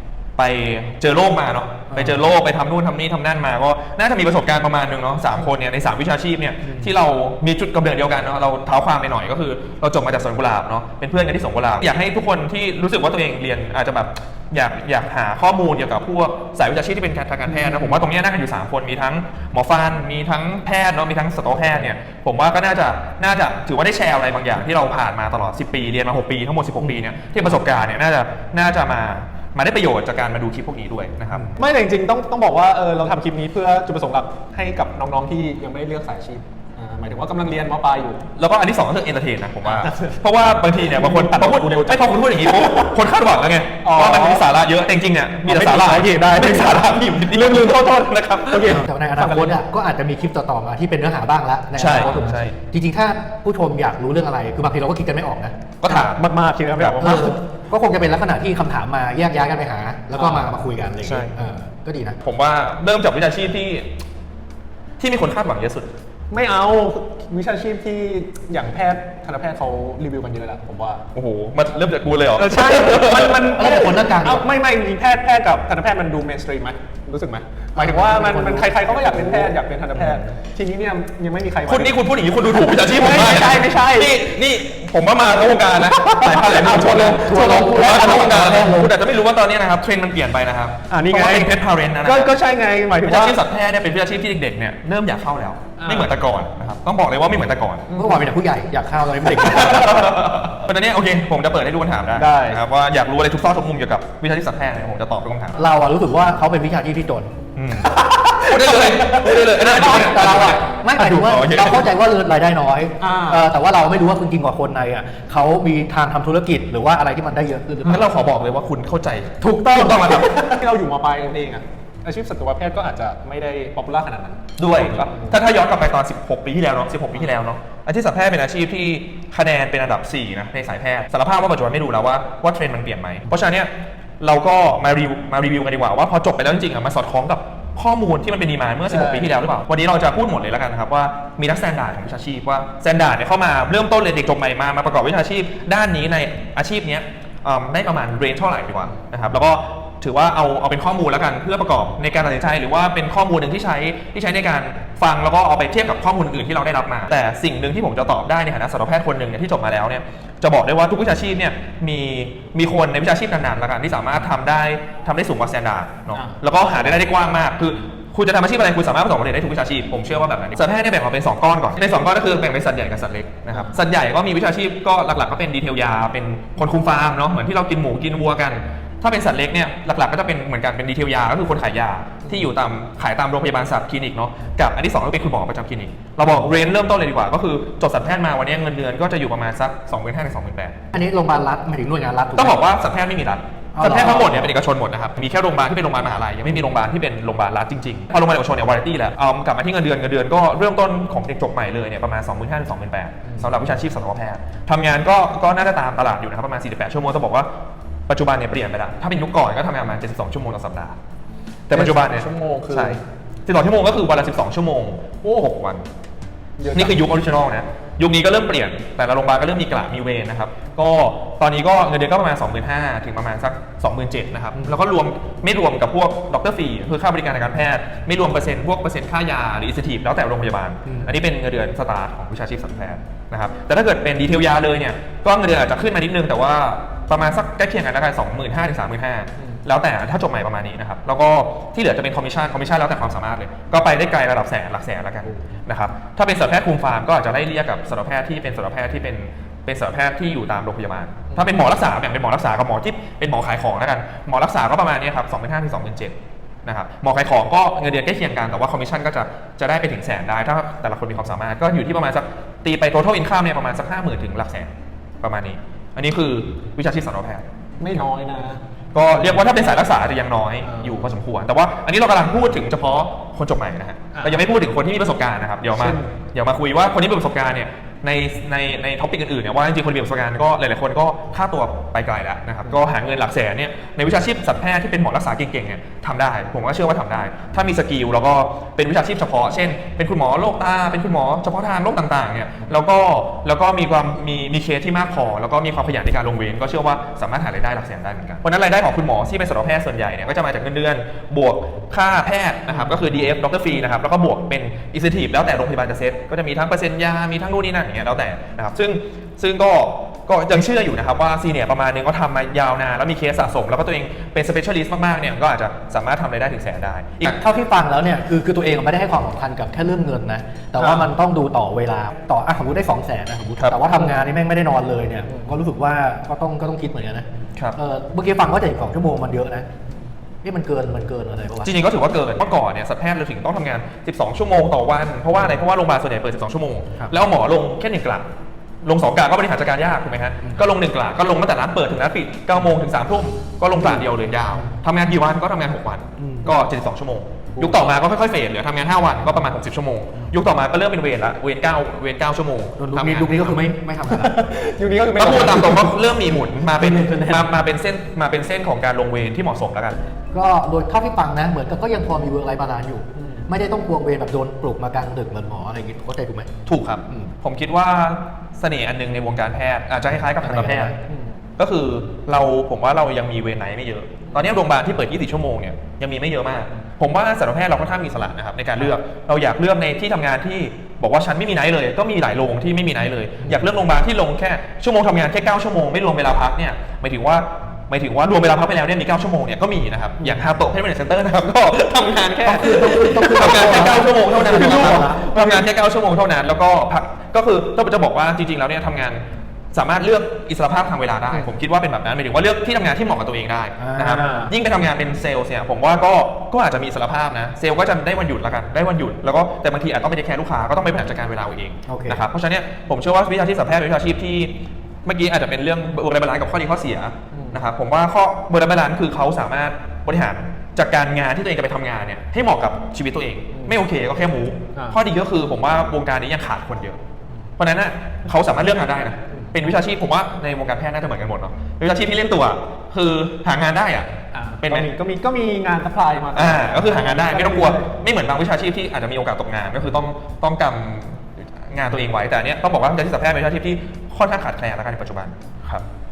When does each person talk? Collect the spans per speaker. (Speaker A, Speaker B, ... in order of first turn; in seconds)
Speaker A: 0.4-31.5, 38.4-48.8, 51.8-52.5, 55.8-57.1, 61.0-61.3, 62.2-63.9, 65.0-65.9, 71.1-73.6, 81.7-92.3, 93.0-97.9, 99.3-105.6, 107.5-111.9, 117.8-120.6, 124.6-190.8, 192.4-207.5, 208.1-211.0, 211.7-215.8, 216.7-264.7, 265.2-267.4, 268.9-317.4, 320.8-321.1, 323.6-324.0, 331.6-338.2, 338.8-353.6, 355.2-359.9, 366.7-370.9, 371.6-399.2, 399.7-427.0, 427.6-434.9, 436.3-445.8
Speaker B: 1.9-2.2, 48.7-55.6, 57.0-62.2, 73.6-74.5, 77.8-79.5, 87.2-88.9, 98.0-100.1, 105.6-107.3, 109.8-118.1, 190.9-192.6, 193.8-194.5, 317.2-329.7, 330.4-331.7, 343.8-344.1, 346.2-346.5, 352.8-354.5, 356.6-357.5, 360.3-366.5, 370.4-371.0, 392.4-395.6, 403.8-404.5, 411.9-412.2
Speaker C: 31.6-38.2, 39.6-40.2, 40.9-43.0, 43.8-44.5, 45.5-49.6, 52.0-52.3, 55.9-57.4, 60.2-60.5, 66.3-71.0, 72.4-84.2, 85.5-88.7, 90.9-93.4, 95.8-96.1, 97.9-98.3, 102.2-102.6, 108.0-110.5, 113.0-113.5, 119.4-125.3, 138.9-139.4, 166.1-166.4, 203.3-203.6, 211.7-213.0, 216.6-217.0, 267.8-268.6, 270.6-271.1, 274.1-274.4, 275.7-276.1, 354.1-355.9, 363.2-363.4, 371.1-371.4, 393.8-395.6, 404.1-404.5, 417.3-417.6, 434.3-437.9